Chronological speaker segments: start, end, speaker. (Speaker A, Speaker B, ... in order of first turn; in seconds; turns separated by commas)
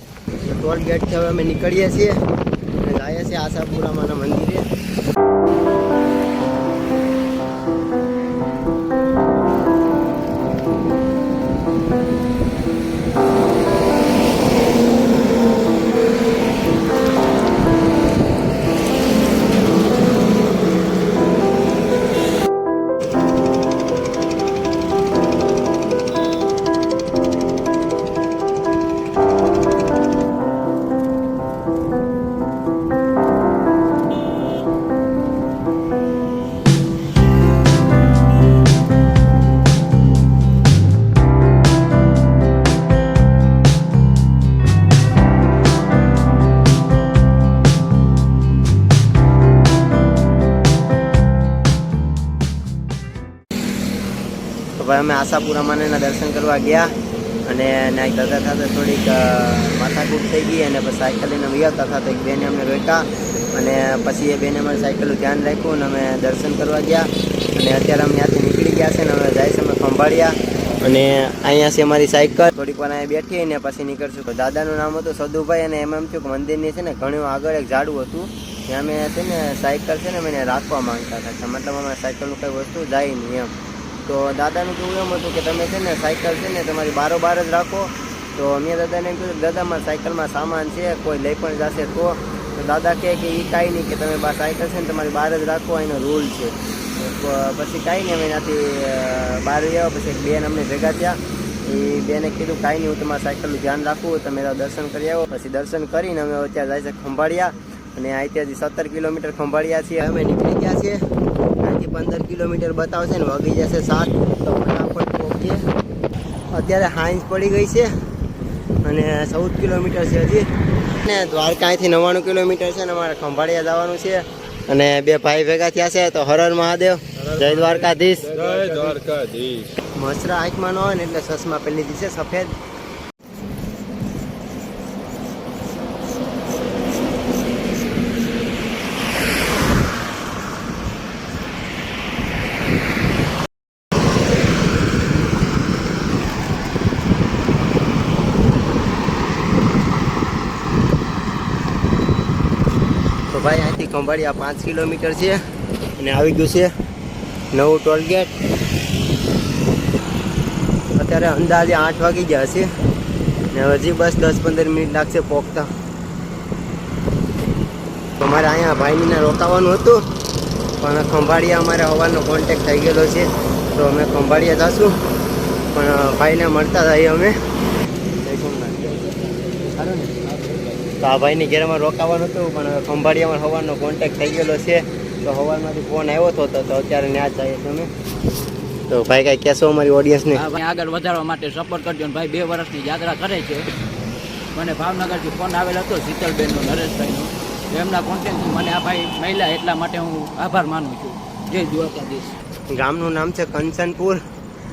Speaker A: 0.3-2.2, Speaker A: 2.8-4.6, Speaker A: 54.8-56.9, Speaker A: 57.5-83.5, Speaker A: 84.0-111.0, Speaker A: 111.6-115.6, Speaker A: 116.5-117.9, Speaker A: 118.8-120.5, Speaker A: 121.0-128.3, Speaker B: 127.2-129.7, Speaker A: 129.9-132.5, Speaker A: 153.3-155.4, Speaker A: 156.0-156.7, Speaker A: 157.5-158.3, Speaker A: 161.0-162.7, Speaker A: 163.5-165.7, Speaker A: 168.2-170.0, Speaker A: 170.8-175.0, Speaker A: 175.7-177.3, Speaker A: 178.2-178.8, Speaker C: 178.8-179.7, Speaker A: 179.7-180.2, Speaker C: 180.2-180.9, Speaker A: 181.0-187.9, Speaker A: 188.9-190.4, Speaker C: 190.3-193.7, Speaker C: 194.5-202.4, Speaker A: 202.7-204.2